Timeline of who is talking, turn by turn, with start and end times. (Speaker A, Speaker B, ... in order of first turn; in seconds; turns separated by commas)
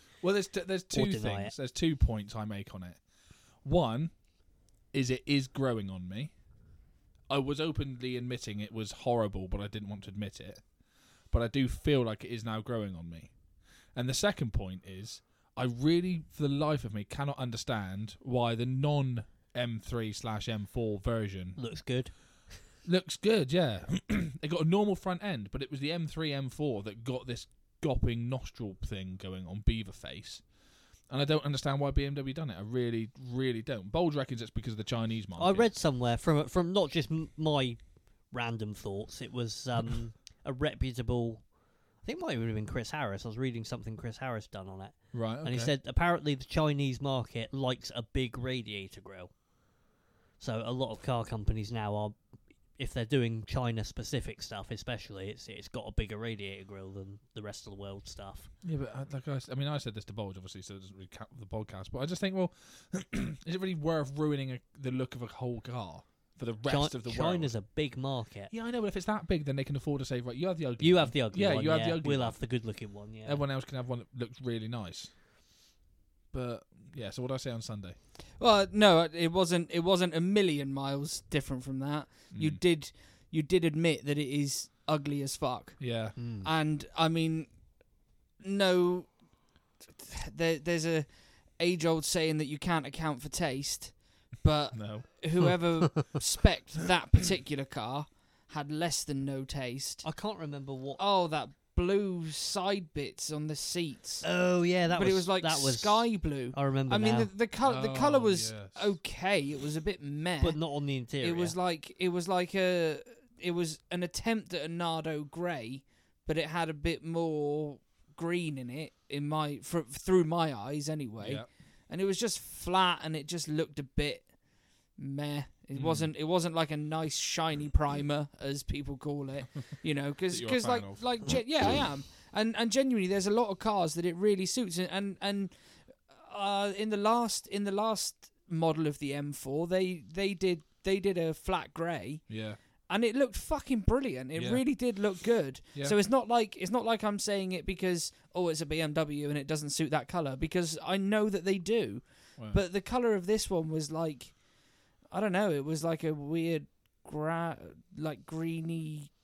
Speaker A: 0.2-3.0, Speaker B: 0.9-1.5, Speaker A: 3.6-4.2, Speaker A: 4.9-6.3, Speaker A: 7.3-10.7, Speaker A: 11.3-13.4, Speaker A: 13.9-21.6, Speaker B: 21.6-22.5, Speaker A: 22.8-30.5, Speaker A: 31.1-35.7, Speaker B: 35.4-41.5, Speaker B: 42.0-49.3, Speaker A: 45.1-45.7, Speaker B: 50.4-52.2, Speaker B: 52.8-58.5, Speaker A: 58.6-67.6, Speaker B: 66.7-68.5, Speaker A: 68.5-75.1, Speaker B: 70.8-73.4, Speaker A: 76.3-78.0, Speaker C: 78.4-87.6, Speaker A: 82.3-82.6, Speaker A: 85.8-86.2, Speaker B: 86.2-86.5, Speaker C: 88.4-89.2, Speaker C: 90.0-100.1, Speaker A: 94.7-95.1, Speaker B: 100.0-101.0, Speaker C: 101.0-104.3, Speaker B: 104.2-107.3, Speaker C: 104.9-110.6, Speaker A: 107.6-109.0, Speaker B: 110.4-111.6, Speaker C: 111.2-124.3, Speaker A: 121.2-121.5, Speaker C: 125.0-154.5, Speaker A: 125.7-126.1, Speaker A: 130.3-131.4, Speaker A: 142.3-142.6, Speaker A: 144.3-145.1, Speaker C: 155.1-159.1